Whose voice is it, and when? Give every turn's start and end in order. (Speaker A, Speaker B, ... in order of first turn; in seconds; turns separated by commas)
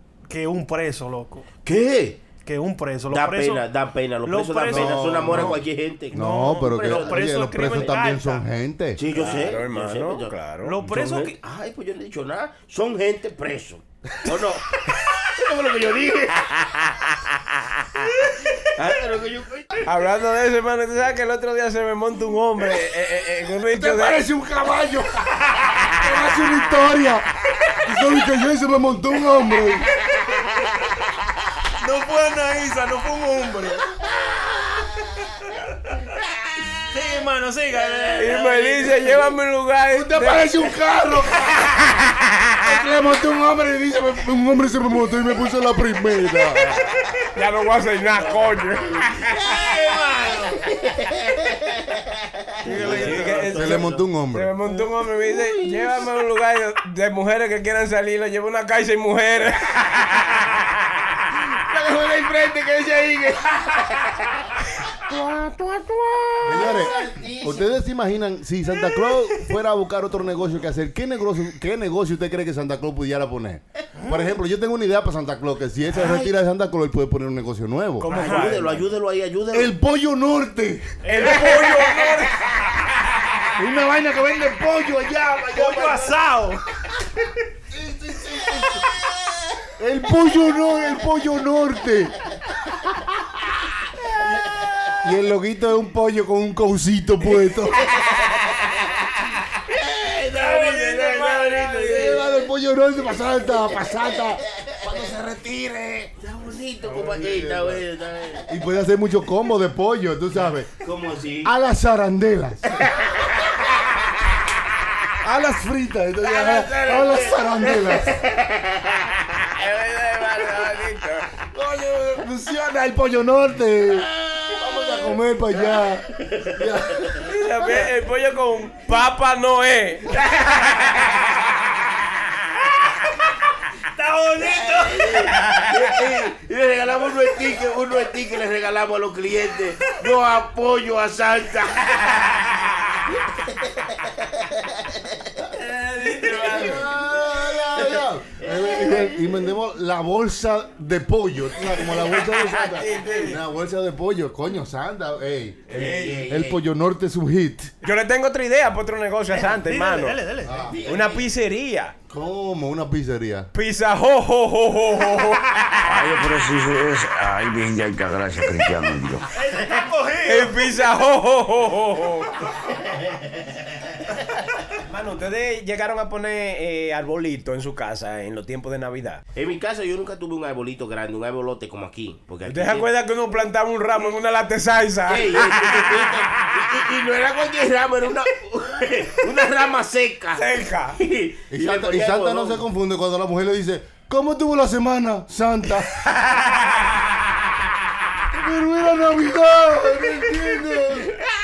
Speaker A: 0.3-1.4, Speaker B: 1.6-2.2, Speaker A: 2.4-3.6, Speaker B: 3.1-7.9, Speaker A: 4.2-5.5, Speaker C: 4.7-9.0, Speaker A: 6.1-8.4, Speaker B: 9.0-16.5, Speaker D: 9.1-10.7, Speaker A: 10.6-11.3, Speaker B: 18.8-19.8, Speaker D: 19.8-24.2, Speaker C: 23.7-27.3, Speaker C: 27.8-29.9, Speaker A: 31.8-33.8, Speaker A: 36.9-38.7, Speaker B: 37.9-39.1, Speaker D: 38.2-40.5, Speaker C: 39.9-41.8, Speaker C: 42.6-46.9, Speaker D: 47.3-49.5, Speaker B: 48.2-49.1, Speaker A: 49.4-50.6, Speaker B: 50.9-51.2, Speaker B: 52.6-54.0, Speaker A: 52.6-53.5, Speaker D: 52.7-60.4, Speaker C: 53.5-54.5, Speaker B: 61.7-64.2, Speaker D: 65.1-66.7, Speaker C: 66.4-78.1, Speaker B: 66.4-67.7, Speaker A: 74.0-74.3, Speaker B: 76.0-76.3, Speaker D: 78.0-78.9, Speaker B: 78.1-79.7, Speaker A: 78.1-78.6, Speaker C: 79.5-81.0, Speaker A: 81.0-81.8, Speaker D: 81.1-82.9, Speaker C: 83.6-86.0, Speaker A: 85.5-86.6, Speaker B: 85.8-86.1, Speaker C: 87.7-88.8, Speaker C: 89.8-92.2, Speaker C: 95.0-97.9, Speaker B: 98.1-98.5, Speaker B: 99.7-102.2, Speaker D: 100.3-102.1, Speaker C: 101.8-106.1, Speaker B: 106.2-108.5, Speaker C: 106.8-107.8, Speaker C: 108.5-110.7, Speaker B: 110.8-111.5, Speaker C: 111.4-112.8, Speaker C: 115.2-118.2, Speaker B: 116.2-119.1, Speaker D: 119.5-121.3, Speaker C: 121.5-127.2, Speaker B: 125.7-127.2, Speaker D: 127.2-131.1, Speaker A: 133.9-135.2, Speaker B: 134.7-141.9, Speaker D: 145.6-146.9, Speaker C: 146.4-157.7, Speaker B: 147.9-149.2, Speaker D: 151.9-153.3, Speaker D: 155.7-156.2, Speaker B: 155.7-156.6, Speaker D: 157.8-160.2, Speaker A: 159.3-160.6, Speaker C: 160.4-160.8, Speaker B: 160.6-161.2, Speaker D: 160.8-161.9, Speaker C: 162.1-163.5, Speaker D: 163.5-165.8, Speaker E: 165.8-169.2, Speaker A: 169.3-170.5, Speaker D: 170.2-172.4, Speaker D: 174.8-179.2, Speaker B: 179.3-182.9, Speaker D: 182.4-186.2, Speaker B: 185.1-190.4, Speaker D: 190.3-191.0, Speaker B: 190.9-192.6, Speaker C: 191.5-196.0, Speaker D: 196.2-196.7, Speaker C: 198.3-201.2